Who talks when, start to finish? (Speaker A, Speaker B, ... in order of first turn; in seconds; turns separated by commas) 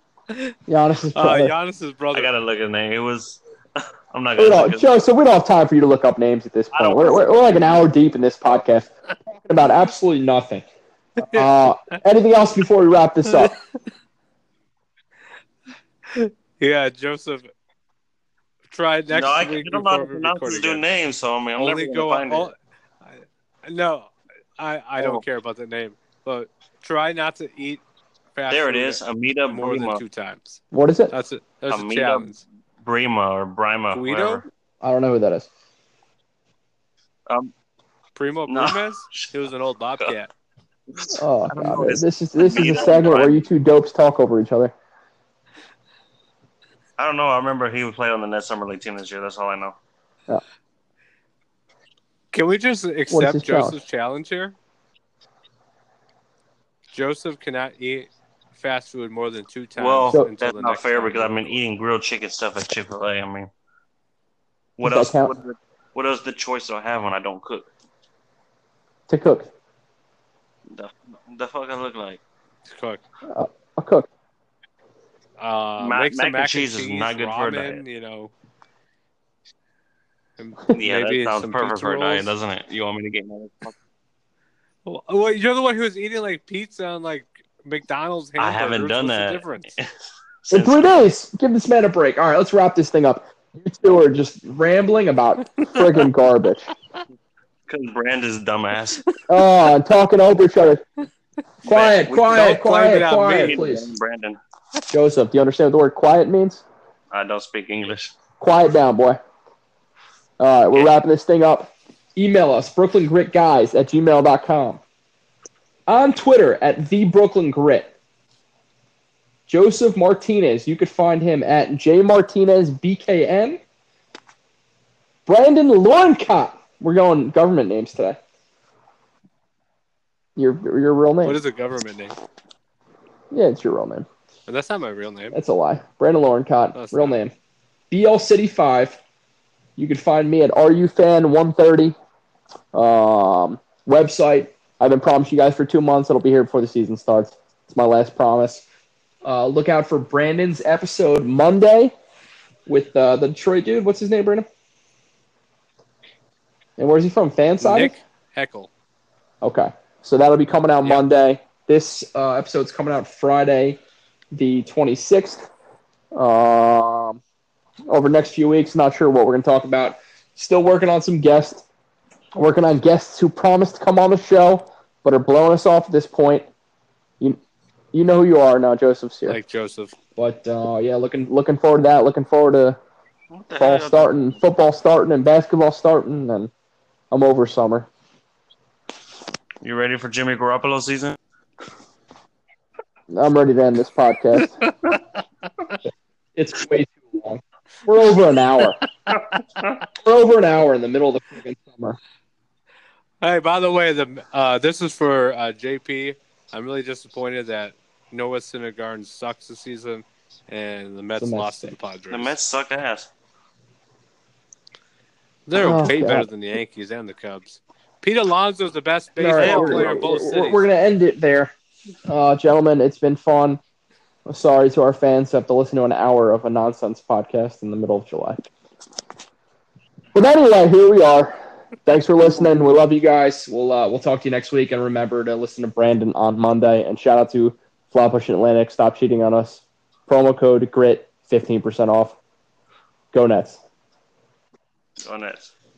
Speaker A: 0.7-1.5, Speaker B: 1.1-2.3, Speaker C: 2.1-3.4, Speaker C: 4.1-4.9, Speaker A: 4.4-10.7, Speaker C: 6.7-7.6, Speaker B: 11.2-11.5, Speaker A: 11.2-13.5, Speaker B: 16.1-17.5, Speaker B: 18.7-20.8, Speaker C: 19.1-22.5, Speaker B: 21.6-27.8, Speaker B: 28.4-32.4, Speaker C: 28.5-30.0, Speaker A: 30.7-31.1, Speaker C: 31.7-34.5, Speaker B: 33.9-34.4, Speaker A: 34.8-35.5, Speaker B: 38.2-40.3, Speaker C: 38.5-39.3, Speaker C: 40.9-43.4, Speaker A: 41.1-44.7, Speaker C: 47.0-49.8, Speaker B: 52.3-54.6, Speaker A: 53.1-53.8, Speaker B: 56.9-61.6, Speaker C: 59.8-63.5, Speaker C: 64.8-67.7, Speaker A: 64.8-65.3, Speaker A: 69.1-69.5, Speaker C: 70.7-72.2, Speaker B: 72.7-73.0, Speaker A: 73.3-74.1, Speaker B: 75.4-78.3, Speaker C: 75.8-77.8, Speaker B: 80.4-82.3, Speaker C: 80.7-83.8, Speaker B: 84.9-89.7, Speaker C: 88.4-89.9, Speaker C: 90.5-91.0, Speaker A: 90.5-96.7, Speaker C: 97.7-99.1, Speaker A: 99.3-100.8, Speaker A: 101.6-103.9, Speaker C: 101.7-102.6, Speaker B: 102.3-103.6, Speaker C: 103.1-104.4, Speaker A: 104.9-106.6, Speaker C: 107.1-108.2, Speaker A: 108.4-109.2, Speaker A: 110.4-114.8, Speaker A: 115.9-117.9, Speaker A: 119.5-123.6, Speaker A: 125.3-128.2, Speaker A: 130.4-131.4, Speaker B: 131.2-132.2, Speaker A: 133.3-134.1, Speaker B: 134.5-135.4, Speaker A: 135.3-137.3, Speaker B: 136.7-137.2, Speaker A: 137.9-139.0, Speaker A: 139.8-141.9, Speaker A: 142.7-148.6, Speaker A: 149.2-151.9, Speaker A: 152.7-154.5, Speaker A: 156.8-157.9, Speaker B: 157.6-158.7, Speaker A: 159.4-163.8, Speaker A: 164.3-165.5, Speaker A: 166.1-167.2, Speaker A: 167.9-171.7, Speaker A: 172.3-176.5, Speaker A: 177.9-179.4, Speaker B: 179.3-179.9, Speaker A: 180.2-182.8, Speaker C: 183.3-184.4, Speaker A: 183.6-186.5, Speaker A: 187.1-187.9, Speaker C: 189.6-191.2, Speaker A: 193.1-194.6, Speaker A: 196.4-198.8, Speaker A: 200.0-202.0, Speaker B: 203.2-212.3, Speaker A: 211.2-211.8, Speaker C: 212.1-213.1, Speaker B: 215.5-220.6, Speaker A: 215.6-216.3, Speaker A: 219.2-221.5, Speaker C: 219.4-220.1, Speaker A: 222.1-223.6, Speaker A: 224.3-228.5, Speaker A: 230.1-242.2, Speaker A: 243.1-243.6, Speaker C: 245.0-245.5